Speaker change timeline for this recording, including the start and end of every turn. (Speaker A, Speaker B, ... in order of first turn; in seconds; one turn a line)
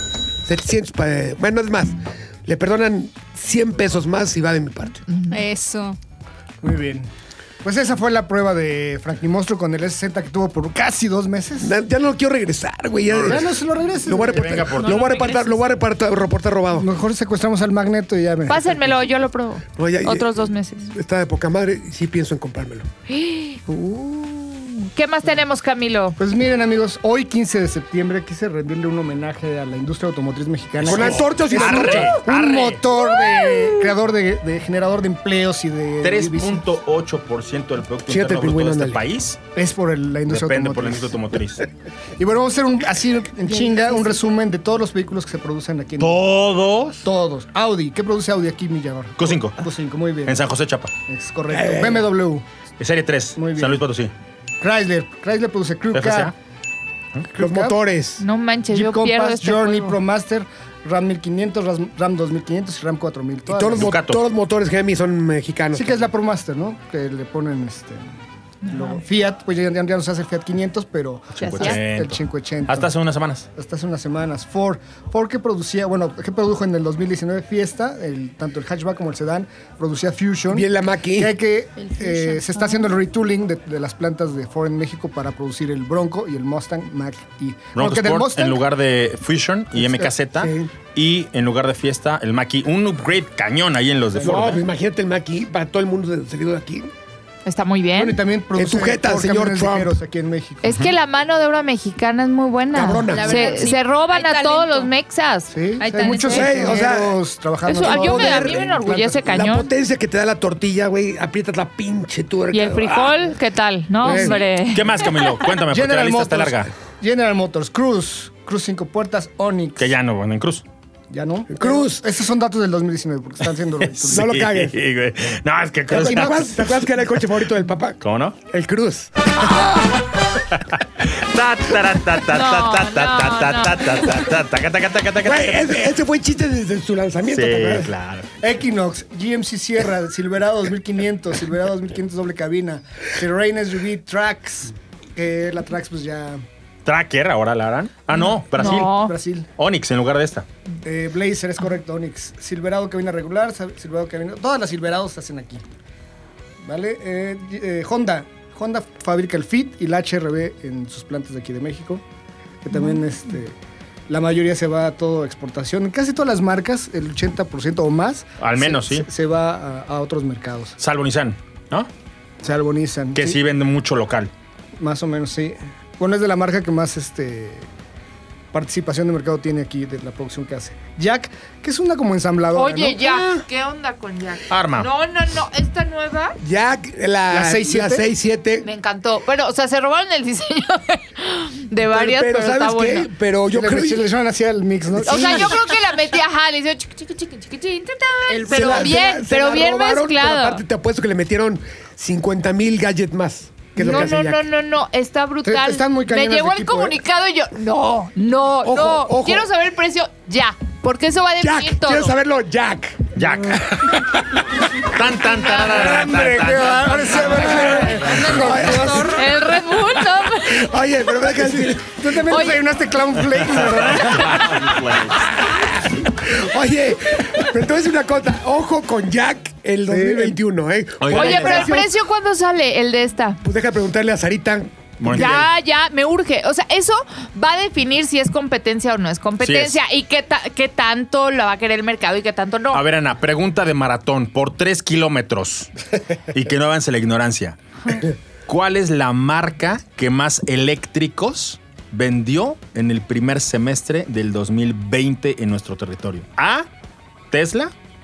Speaker A: 0.4-5.0
Speaker B: 5.1-5.4
Speaker C: 5.3-6.0
Speaker D: 6.6-7.1
Speaker D: 7.6-11.7
Speaker A: 11.6-16.9
Speaker E: 13.1-13.4
Speaker D: 13.2-14.8
Speaker E: 14.3-15.4
Speaker C: 14.8-15.4
Speaker D: 16.7-18.9
Speaker B: 18.5-20.9
Speaker A: 19.8-22.9
Speaker B: 23.1-23.6
Speaker D: 23.7-24.4
Speaker B: 24.4-26.2
Speaker D: 26.2-36.6
Speaker E: 30.8-32.8
Speaker A: 30.8-32.2
Speaker E: 36.0-39.4
Speaker A: 38.1-39.0
Speaker D: 39.5-41.2
Speaker E: 40.3-41.6
Speaker D: 42.2-46.2
Speaker B: 43.7-44.0
Speaker E: 46.0-47.1
Speaker D: 47.0-50.4
Speaker E: 49.2-49.6
Speaker E: 50.2-50.9
Speaker D: 51.1-52.4
Speaker A: 51.5-52.1
Speaker E: 52.8-54.1
Speaker D: 53.4-53.8
Speaker D: 54.6-56.3
Speaker E: 55.9-56.3
Speaker D: 57.3-57.8
Speaker A: 57.3-58.2
Speaker B: 58.2-60.0
Speaker D: 58.7-63.9
Speaker A: 63.5-66.1
Speaker E: 63.7-64.2
Speaker D: 65.7-68.1
Speaker B: 68.6-69.0
Speaker D: 68.7-72.9
Speaker B: 71.4-71.8
Speaker E: 71.4-73.5
Speaker D: 73.5-88.6
Speaker A: 80.5-81.3
Speaker C: 81.8-82.9
Speaker E: 87.7-94.6
Speaker D: 89.8-90.1
Speaker A: 90.3-90.7
Speaker D: 94.1-94.6
Speaker A: 94.2-96.9
Speaker B: 97.4-98.2
Speaker D: 98.0-100.7
Speaker A: 98.5-100.0
Speaker B: 100.6-105.5
Speaker A: 102.7-103.5
Speaker C: 103.0-104.9
Speaker D: 105.5-109.2
Speaker C: 105.8-106.9
Speaker A: 106.2-107.2
Speaker B: 107.7-109.7
Speaker A: 107.8-113.3
Speaker B: 112.5-115.0
Speaker A: 114.0-114.4
Speaker E: 114.7-116.7
Speaker D: 115.7-119.9
Speaker E: 119.8-120.6
Speaker D: 121.1-124.3
Speaker A: 121.5-122.0
Speaker E: 123.8-126.6
Speaker A: 124.1-124.8
Speaker A: 125.9-129.7
Speaker D: 125.9-126.5
Speaker E: 128.0-128.4
Speaker E: 130.5-135.8
Speaker B: 132.3-134.1
Speaker A: 135.2-137.9
Speaker E: 137.3-138.3
Speaker D: 138.4-146.4
Speaker E: 146.8-149.0
Speaker B: 148.1-149.2
Speaker D: 148.5-149.5
Speaker E: 149.6-150.4
Speaker D: 150.8-155.6
Speaker D: 156.6-162.0
Speaker D: 162.6-163.5
Speaker D: 164.1-170.7
Speaker E: 168.4-169.1
Speaker E: 170.8-171.9
Speaker D: 172.4-173.4
Speaker E: 173.1-174.3
Speaker D: 174.8-177.7
Speaker D: 178.5-183.1
Speaker B: 182.5-186.4
Speaker E: 184.5-184.9
Speaker A: 186.4-188.7
Speaker D: 187.3-188.0
Speaker B: 188.6-193.1
Speaker A: 191.8-194.1
Speaker D: 193.5-195.6
Speaker A: 195.0-195.6
Speaker B: 195.0-200.6
Speaker D: 198.3-198.9
Speaker A: 198.5-204.4
Speaker D: 203.8-204.1
Speaker B: 203.8-212.1
Speaker D: 205.4-206.9
Speaker A: 208.6-209.5
Speaker A: 211.4-213.1
Speaker E: 213.2-214.0
Speaker E: 214.8-217.7
Speaker D: 215.5-219.2
Speaker A: 217.3-219.1
Speaker C: 217.9-219.2
Speaker B: 219.0-220.7
Speaker A: 220.4-222.3
Speaker D: 221.3-224.7
Speaker B: 222.3-222.6
Speaker E: 223.5-225.2
Speaker A: 224.5-231.9
Speaker D: 229.9-230.4
Speaker E: 231.0-231.8
Speaker B: 231.1-233.4
Speaker A: 233.4-235.5
Speaker E: 235.0-235.5
Speaker B: 235.1-242.8
Speaker E: 239.4-239.8
Speaker E: 242.7-245.7
Speaker E: 246.3-256.7
Speaker E: 257.3-257.7